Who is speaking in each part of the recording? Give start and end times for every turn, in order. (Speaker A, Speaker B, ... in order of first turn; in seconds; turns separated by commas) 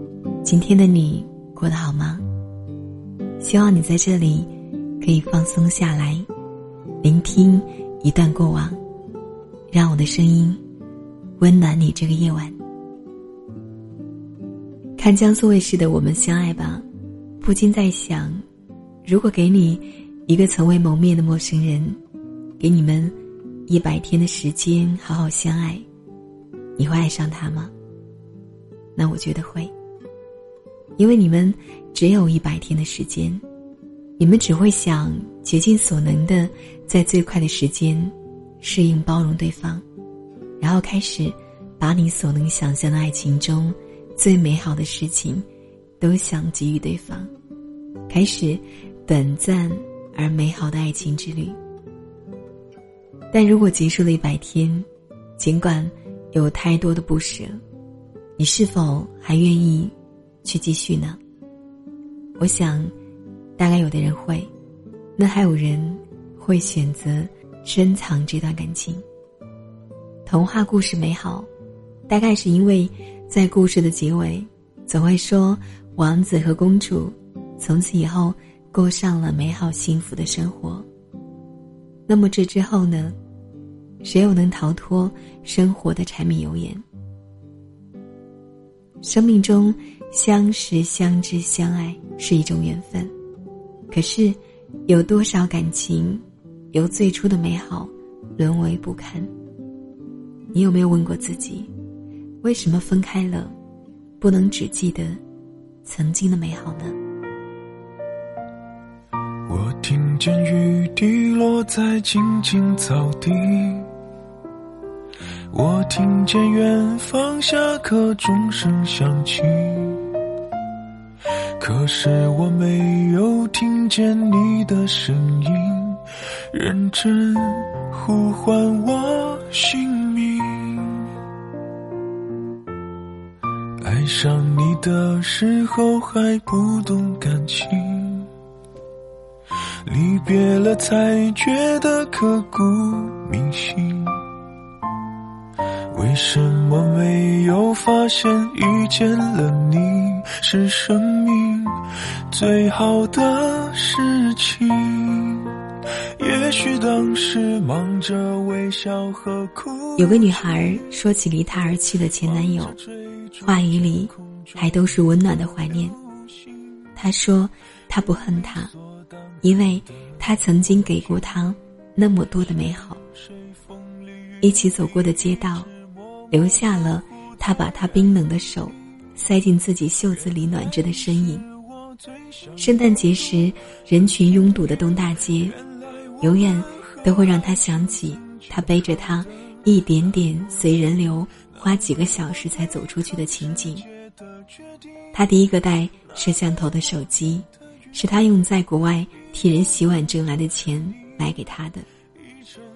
Speaker A: 0.4-2.2, Speaker A: 3.4-4.5, Speaker A: 5.0-6.3, Speaker A: 7.0-8.8, Speaker A: 9.7-10.6, Speaker A: 11.4-12.6, Speaker A: 15.0-16.9, Speaker A: 17.4-18.4, Speaker A: 19.1-22.0, Speaker A: 22.6-23.1, Speaker A: 23.7-25.9, Speaker A: 26.8-27.7, Speaker A: 29.0-29.7, Speaker A: 31.0-33.4, Speaker A: 34.2-39.8, Speaker A: 40.6-45.5, Speaker A: 46.0-47.3, Speaker A: 48.1-51.6, Speaker A: 53.3-54.9, Speaker A: 55.4-57.6, Speaker A: 58.4-61.2, Speaker A: 62.4-62.9, Speaker A: 63.6-64.5, Speaker A: 65.2-69.0, Speaker A: 70.3-71.5, Speaker A: 72.1-80.9, Speaker A: 82.1-83.2, Speaker A: 84.0-86.8, Speaker A: 89.0-93.1, Speaker A: 93.9-99.3, Speaker A: 100.5-101.7, Speaker A: 102.4-103.5, Speaker A: 104.2-105.2, Speaker A: 105.8-107.0, Speaker B: 109.5-113.9, Speaker B: 115.5-120.2, Speaker B: 121.6-131.1, Speaker B: 133.8-138.3, Speaker B: 139.8-144.3, Speaker B: 145.9-160.4, Speaker A: 160.0-162.8, Speaker B: 162.5-164.4, Speaker A: 163.4-166.0, Speaker A: 167.0-168.7, Speaker A: 169.4-173.0, Speaker B: 173.9-174.4, Speaker A: 174.4-175.7, Speaker A: 176.3-181.5, Speaker B: 182.2-182.5, Speaker A: 182.6-185.6, Speaker B: 185.7-186.2, Speaker A: 186.2-193.9, Speaker A: 195.1-201.9